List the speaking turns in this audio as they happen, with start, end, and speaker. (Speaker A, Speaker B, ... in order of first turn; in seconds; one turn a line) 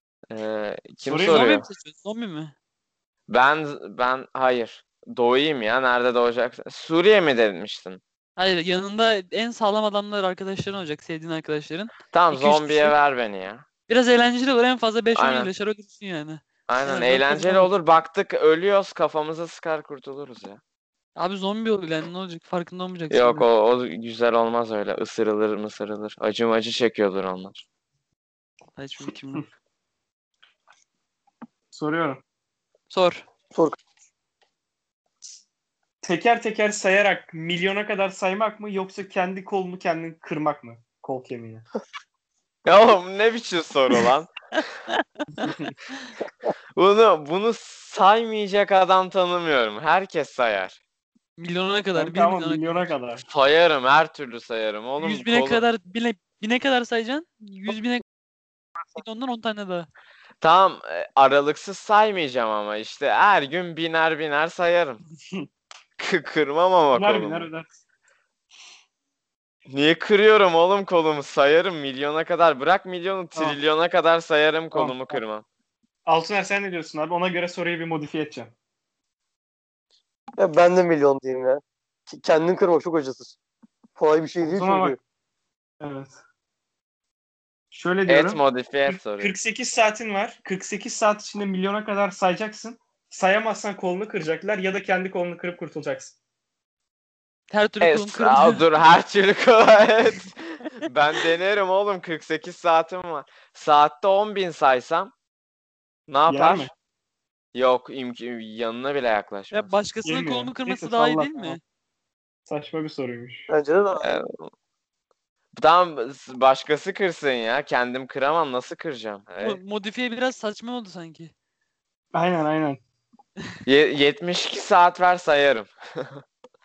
Speaker A: 0.3-1.7
Speaker B: 1.0-1.5
Speaker C: 1.2-2.5
Speaker A: 3.3-8.0
Speaker C: 8.4-12.9
Speaker A: 12.1-13.6
Speaker C: 13.9-17.7
Speaker A: 15.1-15.5
Speaker A: 16.7-20.6
Speaker C: 21.1-23.4
Speaker A: 23.1-27.6
Speaker C: 28.8-29.5
Speaker B: 31.7-32.2
Speaker C: 32.9-33.2
Speaker B: 36.0-41.6
Speaker A: 42.6-44.3
Speaker C: 44.9-46.1
Speaker B: 45.4-45.7
Speaker A: 46.8-50.8
Speaker C: 51.4-52.9
Speaker B: 52.0-53.2
Speaker A: 53.3-55.6
Speaker C: 55.0-58.0
Speaker C: 58.9-59.9
Speaker A: 60.4-65.0
Speaker A: 66.0-67.5
Speaker B: 66.9-67.7
Speaker A: 69.7-75.4
Speaker B: 74.7-75.2
Speaker B: 76.0-78.5
Speaker D: 80.4-83.3
Speaker D: 84.0-85.0
Speaker B: 84.4-85.0
Speaker B: 85.8-86.2
Speaker B: 87.7-96.1
Speaker A: 88.0-89.3
Speaker C: 97.5-98.6
Speaker A: 97.8-105.1
Speaker A: 106.1-106.7
Speaker B: 106.3-106.7
Speaker A: 107.5-109.7
Speaker C: 109.5-111.6
Speaker B: 110.0-111.6
Speaker B: 112.5-113.5
Speaker D: 113.5-114.2
Speaker A: 114.0-114.4
Speaker A: 115.5-119.6
Speaker C: 119.4-121.3
Speaker B: 122.1-122.8
Speaker A: 123.7-126.2